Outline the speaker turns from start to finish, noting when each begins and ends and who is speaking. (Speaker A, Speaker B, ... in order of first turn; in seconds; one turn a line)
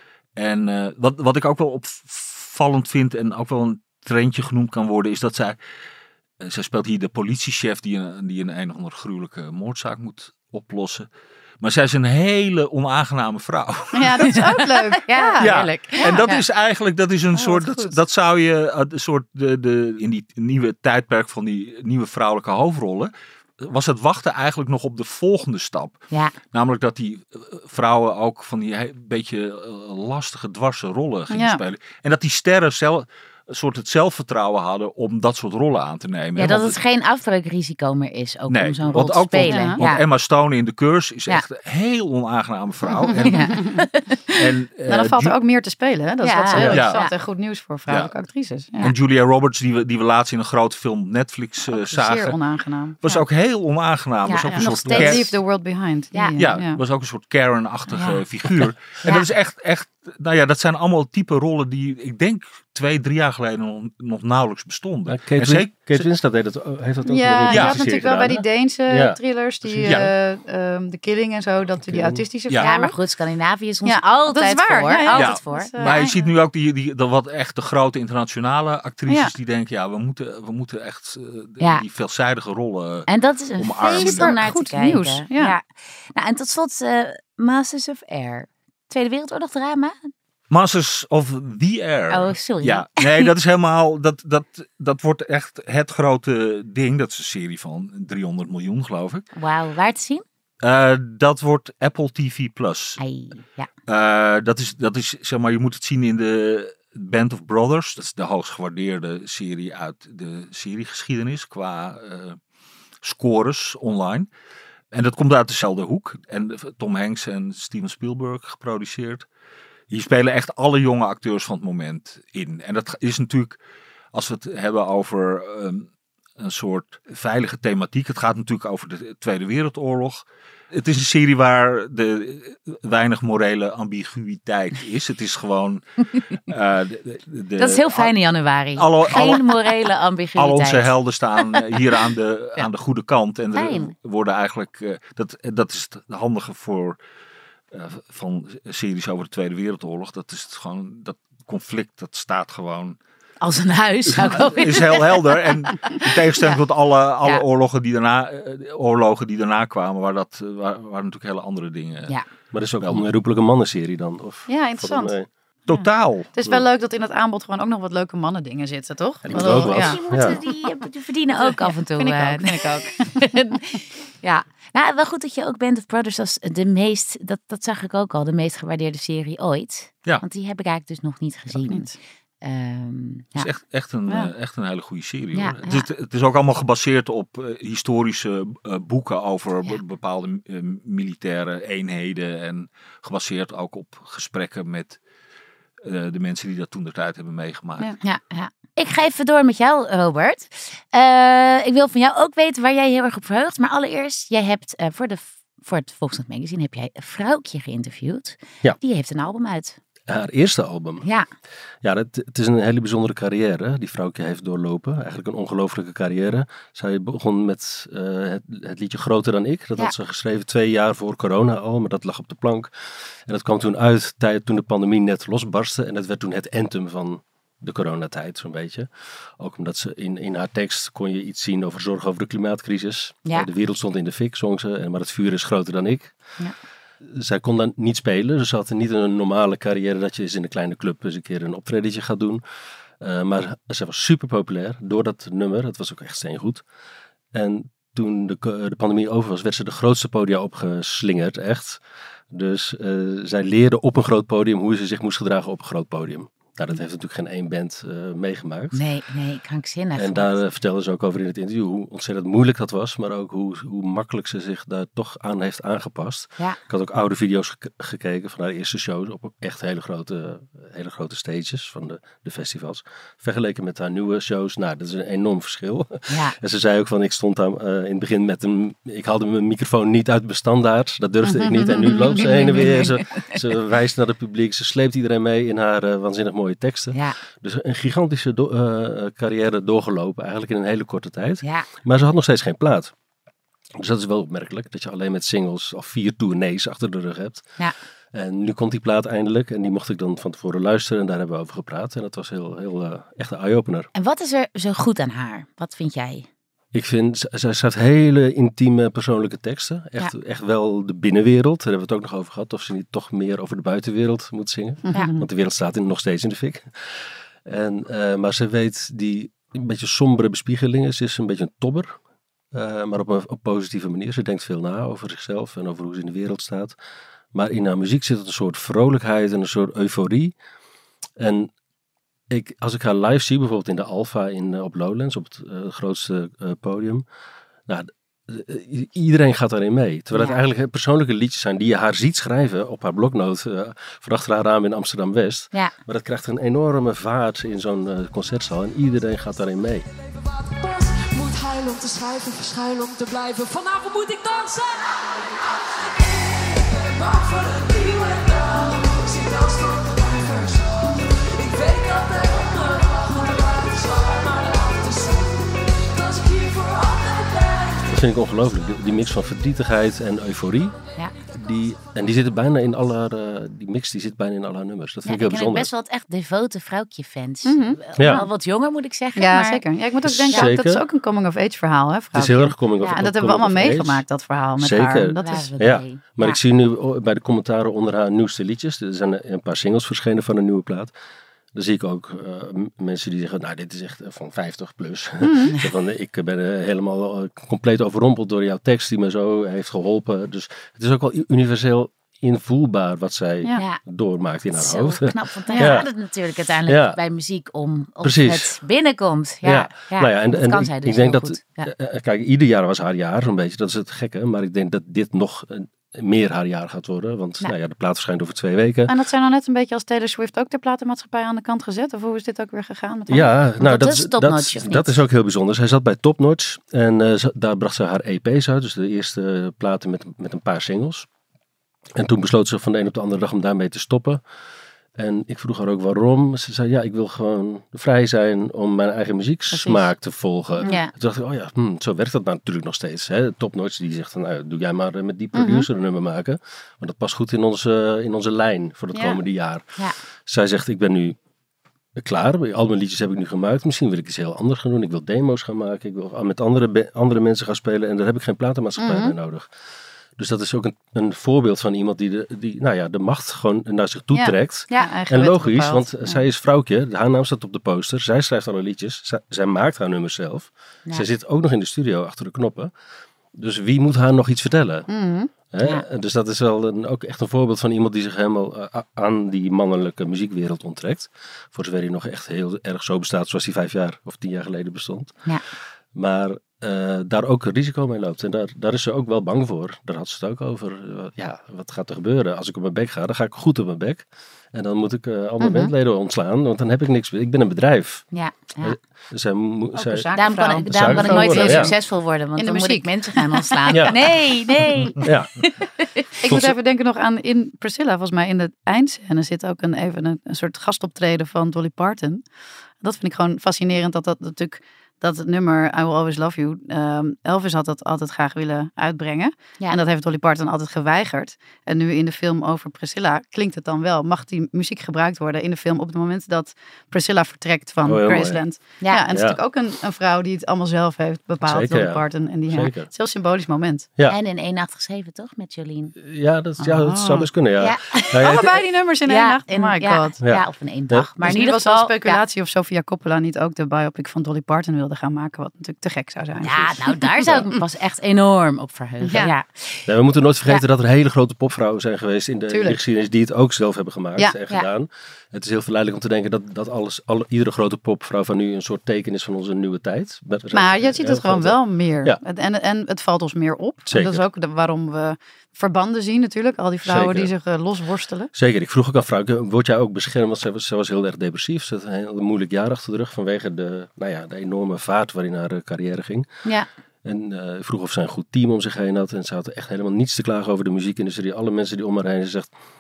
Speaker A: 0.3-5.6
Speaker A: 6.4-11.1
Speaker A: 11.6-36.8
Speaker B: 13.9-16.4
Speaker C: 15.0-16.4
Speaker B: 17.3-17.9
Speaker C: 26.1-26.4
Speaker B: 31.3-31.6
Speaker C: 36.4-40.0
Speaker A: 38.5-43.8
Speaker B: 39.4-39.8
Speaker B: 43.0-43.8
Speaker C: 43.2-44.4
Speaker A: 44.4-45.3
Speaker B: 44.9-48.9
Speaker C: 46.2-47.1
Speaker D: 46.5-46.8
Speaker A: 46.7-47.0
Speaker A: 48.8-52.4
Speaker B: 51.6-53.2
Speaker A: 53.0-55.3
Speaker C: 54.2-55.3
Speaker B: 54.5-56.8
Speaker C: 56.1-56.4
Speaker A: 56.4-66.0
Speaker D: 65.1-70.1
Speaker B: 67.0-73.0
Speaker A: 67.5-67.9
Speaker A: 69.8-70.1
Speaker D: 71.8-72.2
Speaker C: 72.5-75.9
Speaker B: 73.8-76.3
Speaker A: 75.1-84.3
Speaker C: 81.6-81.8
Speaker C: 83.1-90.1
Speaker B: 83.8-85.5
Speaker A: 90.5-99.2
Speaker C: 92.1-93.3
Speaker C: 99.3-100.2
Speaker A: 100.6-103.0
Speaker C: 103.0-103.7
Speaker A: 103.9-112.4
Speaker A: 113.0-114.3
Speaker A: 114.9-119.2
Speaker A: 119.9-123.6
Speaker A: 124.1-125.9
Speaker A: 126.4-138.1
Speaker C: 137.6-141.8
Speaker A: 138.7-139.6
Speaker B: 139.1-139.4
Speaker A: 140.4-147.0
Speaker C: 143.5-143.9
Speaker A: 147.7-153.0
Speaker C: 153.4-156.5
Speaker A: 154.1-162.1
Speaker D: 162.5-165.3
Speaker B: 164.5-165.1
Speaker A: 165.7-166.3
Speaker B: 165.7-170.5
Speaker D: 169.2-170.4
Speaker C: 169.3-181.9
Speaker B: 171.4-173.2
Speaker B: 181.7-181.9
Speaker C: 182.4-183.5
Speaker A: 183.3-195.0
Speaker C: 185.3-185.9
Speaker A: 195.8-197.9
Speaker C: 198.0-209.8
Speaker D: 210.1-211.1
Speaker C: 211.0-211.3
Speaker D: 211.8-222.7
Speaker D: 223.2-236.1
Speaker D: 237.0-242.4
Speaker D: 243.0-246.6
Speaker D: 247.3-258.8
Speaker C: 258.7-260.4
Speaker D: 259.9-292.9
Speaker C: 276.1-276.4
Speaker B: 281.2-282.9
Speaker C: 291.4-291.7
Speaker D: 293.8-297.5
Speaker D: 298.1-303.9
Speaker C: 303.9-306.3
Speaker D: 306.7-316.7
Speaker B: 314.8-315.2
Speaker D: 317.4-322.0
Speaker D: 322.5-326.8
Speaker D: 327.3-330.4
Speaker D: 331.2-331.5
Speaker D: 332.3-337.0
Speaker D: 337.7-349.9
Speaker E: 350.4-367.9
Speaker D: 367.9-370.8
Speaker D: 371.3-375.7
Speaker C: 375.0-379.6
Speaker B: 377.4-378.3
Speaker D: 378.0-378.2
Speaker B: 379.1-385.5
Speaker D: 380.0-380.8
Speaker D: 382.1-384.0
Speaker D: 384.6-390.9
Speaker C: 385.2-386.4
Speaker D: 391.5-405.9
Speaker B: 395.2-395.6
Speaker C: 403.6-403.8
Speaker C: 404.5-411.7
Speaker B: 405.5-405.8
Speaker D: 406.7-407.0
Speaker D: 408.0-408.6
Speaker D: 409.4-418.9
Speaker B: 418.9-423.3
Speaker D: 423.1-431.1
Speaker C: 423.6-425.0
Speaker D: 431.9-434.2
Speaker D: 434.9-451.2
Speaker B: 439.5-439.9
Speaker C: 440.6-440.9
Speaker B: 445.4-445.6
Speaker D: 451.9-459.5
Speaker B: 458.8-459.1
Speaker D: 460.2-472.7
Speaker B: 464.1-466.2
Speaker D: 473.3-474.9
Speaker B: 474.9-475.3
Speaker D: 475.5-485.2
Speaker D: 485.9-498.1
Speaker C: 495.4-495.7
Speaker C: 498.1-498.8
Speaker D: 498.6-501.7
Speaker B: 499.7-504.2
Speaker C: 500.1-506.2
Speaker D: 503.7-504.1
Speaker D: 505.0-505.4
Speaker B: 506.2-512.2
Speaker D: 506.2-506.5
Speaker B: 512.8-533.9
Speaker D: 527.8-528.4
Speaker D: 529.1-529.4
Speaker D: 531.4-532.9
Speaker C: 534.1-535.9
Speaker D: 536.0-538.6
Speaker B: 536.6-537.3
Speaker C: 537.6-538.5
Speaker B: 538.2-540.1
Speaker C: 539.0-542.2
Speaker D: 540.2-541.1
Speaker B: 541.2-547.5
Speaker C: 546.4-549.9
Speaker B: 549.0-549.3
Speaker D: 549.9-562.2
Speaker B: 552.5-552.8
Speaker B: 560.5-568.3
Speaker D: 563.9-564.2
Speaker D: 566.8-567.3
Speaker D: 568.3-576.3
Speaker D: 577.0-582.5